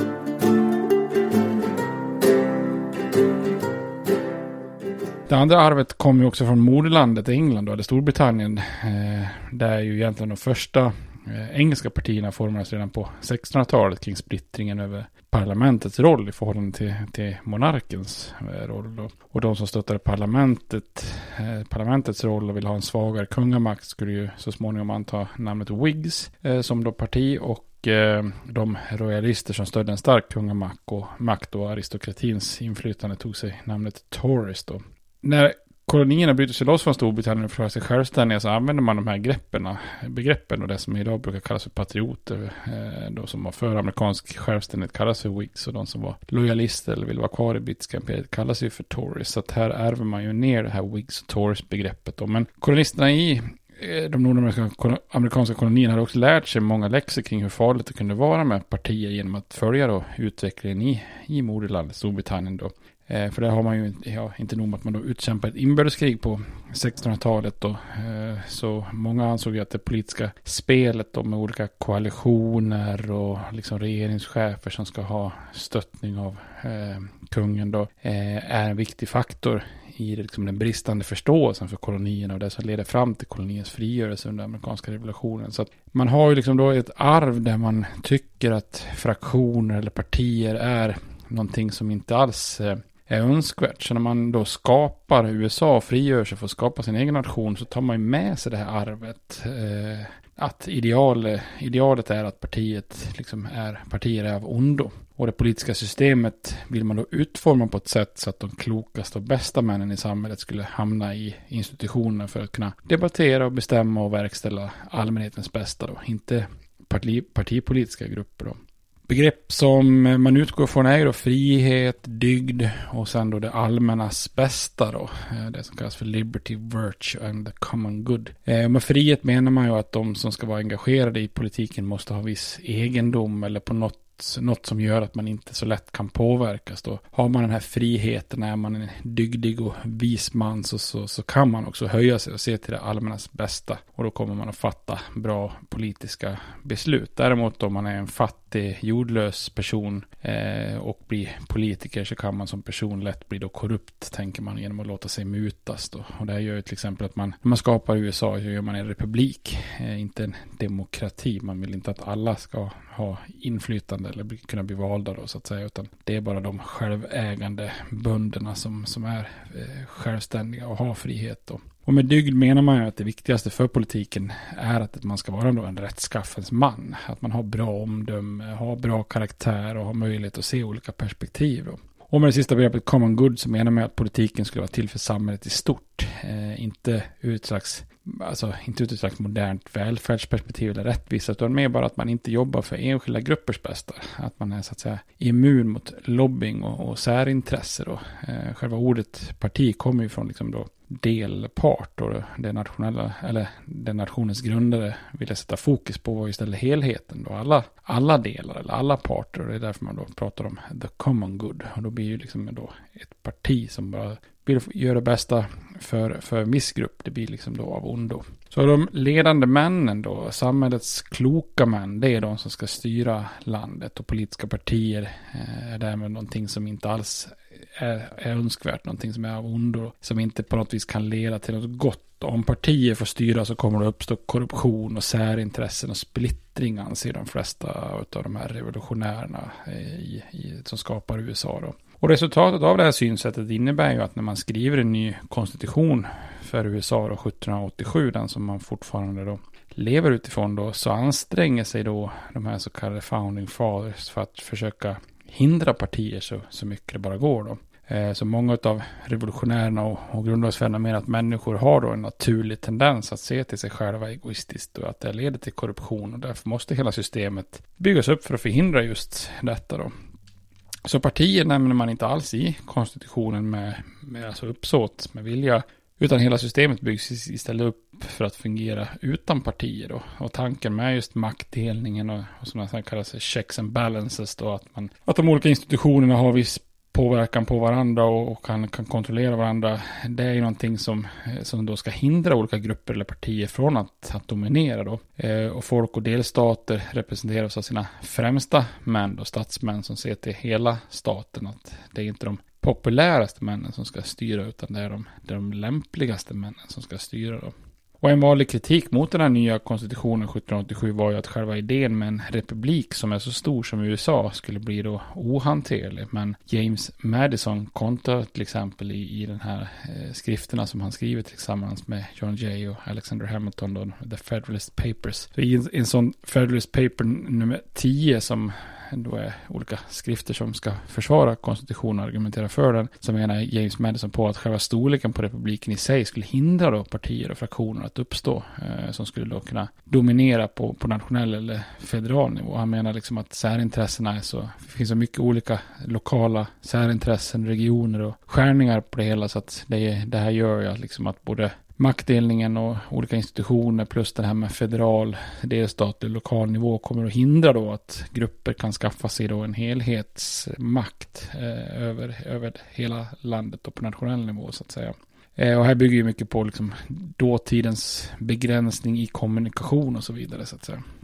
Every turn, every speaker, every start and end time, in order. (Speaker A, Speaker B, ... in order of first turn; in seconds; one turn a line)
Speaker A: 5.3-269.9
Speaker A: 270.9-370.8